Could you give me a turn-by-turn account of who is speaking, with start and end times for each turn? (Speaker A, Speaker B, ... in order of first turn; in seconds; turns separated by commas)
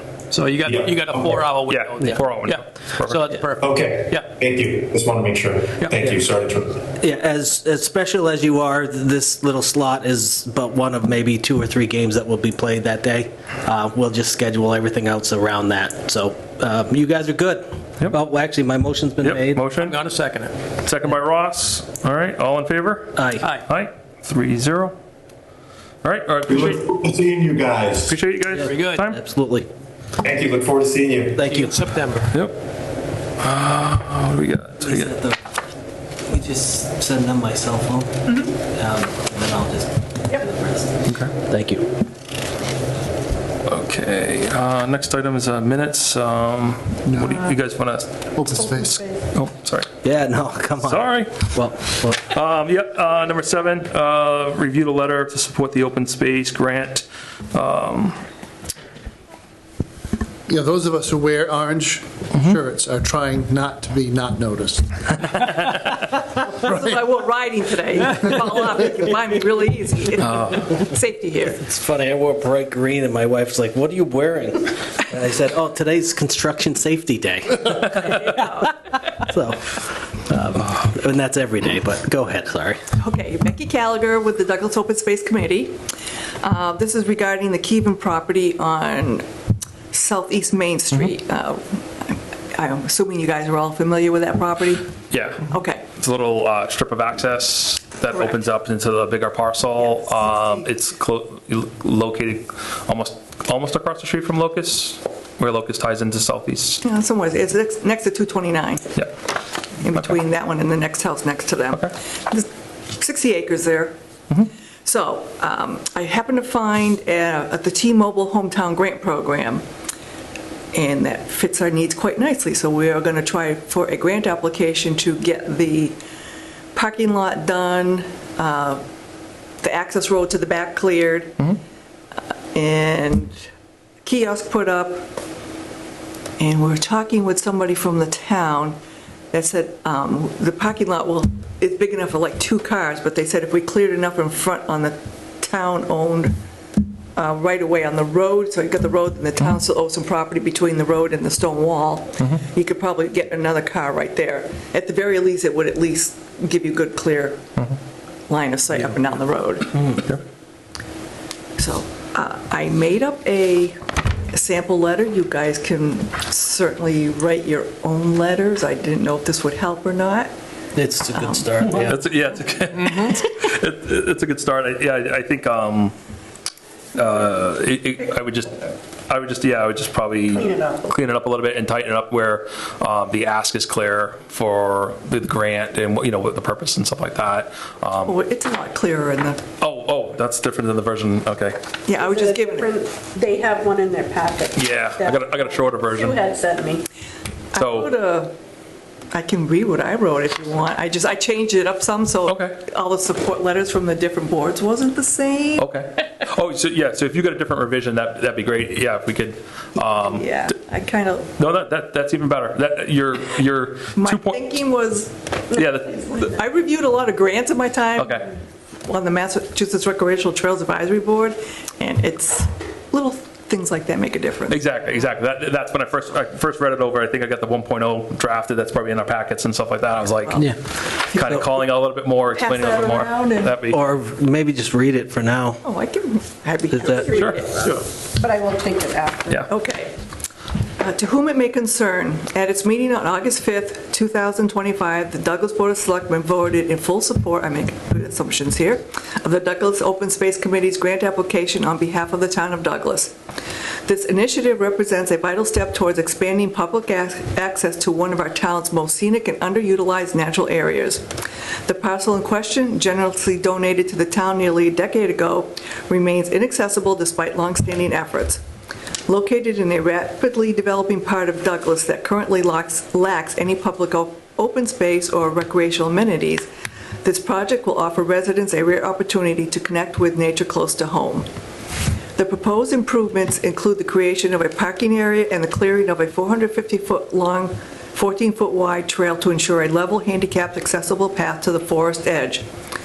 Speaker A: 0.3-4.3, Speaker B: 0.7-1.6, Speaker C: 1.7-3.3, Speaker B: 3.6-6.8, Speaker D: 7.0-19.6, Speaker C: 19.2-20.0, Speaker A: 19.8-20.5, Speaker C: 20.8-24.9, Speaker D: 23.1-23.4, Speaker A: 23.4-23.7, Speaker C: 26.0-26.8, Speaker B: 26.5-28.2, Speaker C: 28.1-29.2, Speaker D: 28.5-29.7, Speaker A: 28.6-29.1, Speaker B: 30.2-31.5, Speaker D: 31.4-31.8, Speaker A: 31.4-32.3, Speaker C: 33.4-35.1, Speaker D: 34.8-35.4, Speaker D: 36.2-41.9, Speaker C: 41.0-41.3, Speaker C: 43.7-48.5, Speaker E: 48.4-49.0, Speaker F: 48.6-49.2, Speaker C: 49.3-49.9, Speaker D: 50.0-52.2, Speaker C: 50.8-51.5, Speaker C: 52.2-58.2, Speaker E: 60.5-65.5, Speaker G: 66.4-71.6, Speaker E: 66.6-67.0, Speaker C: 70.2-70.6, Speaker D: 71.6-78.2, Speaker G: 78.2-78.7, Speaker D: 79.1-82.8, Speaker G: 83.0-85.8, Speaker G: 86.4-89.2, Speaker G: 89.9-94.9, Speaker C: 95.1-95.5, Speaker G: 95.5-95.9, Speaker C: 96.0-106.8, Speaker G: 98.1-98.4, Speaker G: 99.8-100.7, Speaker G: 106.8-109.0, Speaker G: 109.8-114.0, Speaker G: 114.8-119.6, Speaker G: 120.7-126.0, Speaker G: 126.7-128.8, Speaker G: 129.6-131.4, Speaker G: 132.5-133.4, Speaker G: 134.0-135.1, Speaker G: 136.4-138.8, Speaker G: 139.3-146.3, Speaker G: 147.2-157.4, Speaker G: 158.3-160.0, Speaker G: 161.6-163.8, Speaker G: 164.3-170.3, Speaker D: 170.7-172.0, Speaker G: 171.1-171.5, Speaker C: 171.8-175.9, Speaker C: 176.9-188.1, Speaker F: 180.3-180.9, Speaker G: 188.1-189.4, Speaker C: 189.6-191.6, Speaker G: 191.9-192.7, Speaker F: 191.9-196.8, Speaker C: 194.6-196.2, Speaker G: 197.5-198.3, Speaker C: 197.6-197.9, Speaker G: 199.1-205.7, Speaker C: 202.3-202.6, Speaker C: 205.6-210.3, Speaker G: 209.8-211.3, Speaker C: 211.4-214.5, Speaker G: 213.9-218.3, Speaker C: 215.5-216.2, Speaker C: 218.0-218.2, Speaker G: 218.8-224.6, Speaker C: 224.5-230.5, Speaker G: 230.2-230.5, Speaker C: 231.1-233.8, Speaker G: 231.1-231.4, Speaker G: 232.4-233.5, Speaker D: 233.7-235.6, Speaker G: 235.6-237.6, Speaker D: 236.7-237.1, Speaker C: 237.1-237.4, Speaker F: 237.2-239.4, Speaker G: 239.5-239.9, Speaker G: 240.8-253.2, Speaker G: 253.8-261.0, Speaker G: 261.7-268.4, Speaker G: 269.1-276.5, Speaker G: 277.0-281.3, Speaker G: 282.1-292.4